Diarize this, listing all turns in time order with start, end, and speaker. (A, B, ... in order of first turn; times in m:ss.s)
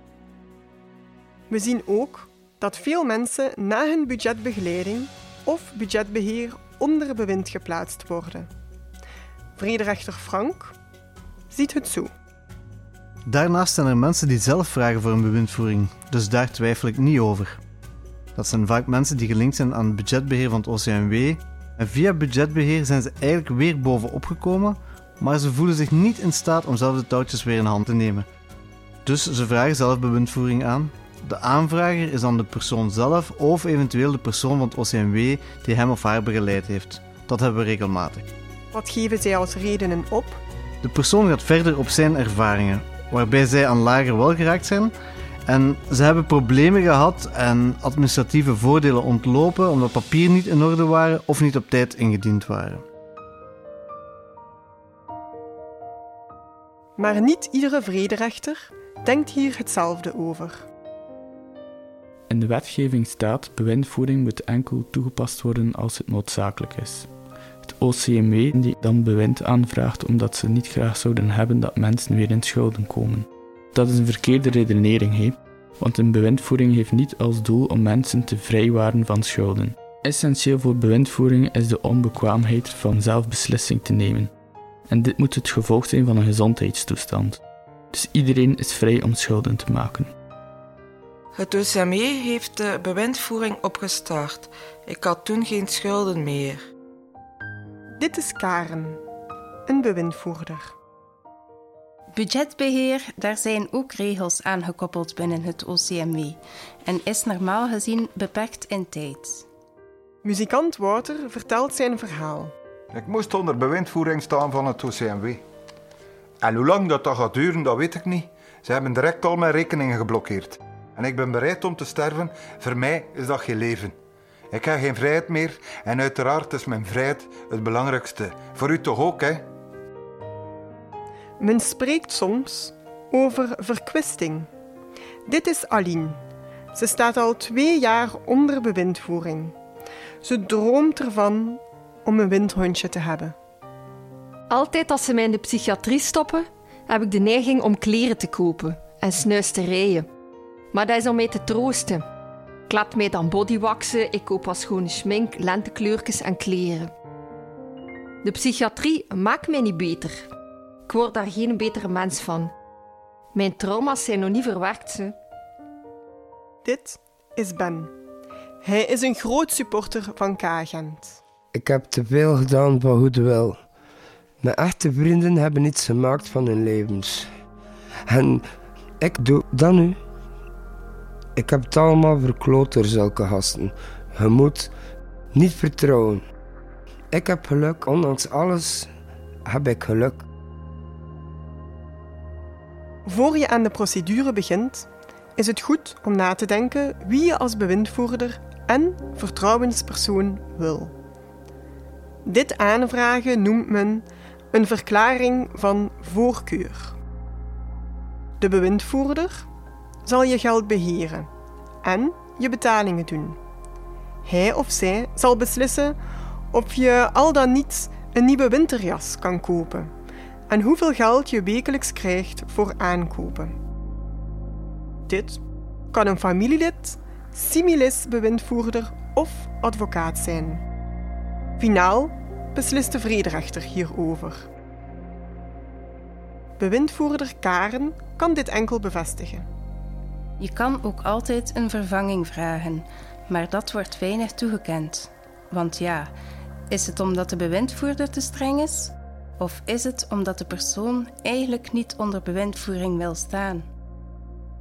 0:01.5-0:08.5 A
0:09.6-0:10.8 A
0:11.5-0:12.1 A
0:13.3-0:17.6 B
0:18.4-0:28.3 B
0:29.0-0:38.2 B
0:38.7-0:40.4 A
0:40.8-0:44.9 B
0:45.5-0:52.8 B
0:57.0-1:00.7 A
1:02.3-1:07.1 C
1:07.6-1:24.3 C
1:24.9-1:27.4 C
1:27.9-1:30.1 C
1:31.4-1:36.6 D
1:38.0-1:39.0 A
1:39.7-1:40.7 A
1:42.1-1:49.4 E
1:50.2-1:52.5 A
1:52.9-1:55.4 F
1:56.4-2:03.9 F
2:04.5-2:09.4 F
2:11.4-2:14.5 A
2:15.3-2:16.2 A
2:16.7-2:19.5 A
2:20.2-2:23.4 A
2:24.5-2:30.1 G
2:30.7-2:32.0 G
2:32.7-2:36.9 G
2:38.2-2:40.2 G
2:40.9-2:42.5 G
2:43.3-2:45.2 G
2:46.6-2:47.9 A
2:48.6-2:51.2 A
2:51.5-2:53.6 H
2:54.4-2:57.3 H
2:58.1-2:58.4 H
2:59.0-3:00.0 H
3:01.4-3:04.7 H
3:05.3-3:06.2 H
3:07.1-3:08.9 H
3:09.4-3:10.2 H
3:13.0-3:20.9 A
3:22.2-3:27.0 A
3:28.4-3:29.5 A
3:30.0-3:31.3 A
3:31.8-3:33.4 A
3:34.2-3:36.0 A
3:36.5-3:39.9 A
3:40.5-3:43.6 A
3:45.1-3:50.6 A
3:51.6-3:54.5 A
3:56.6-3:59.5 A
4:00.4-4:06.1 E
4:06.7-4:13.6 E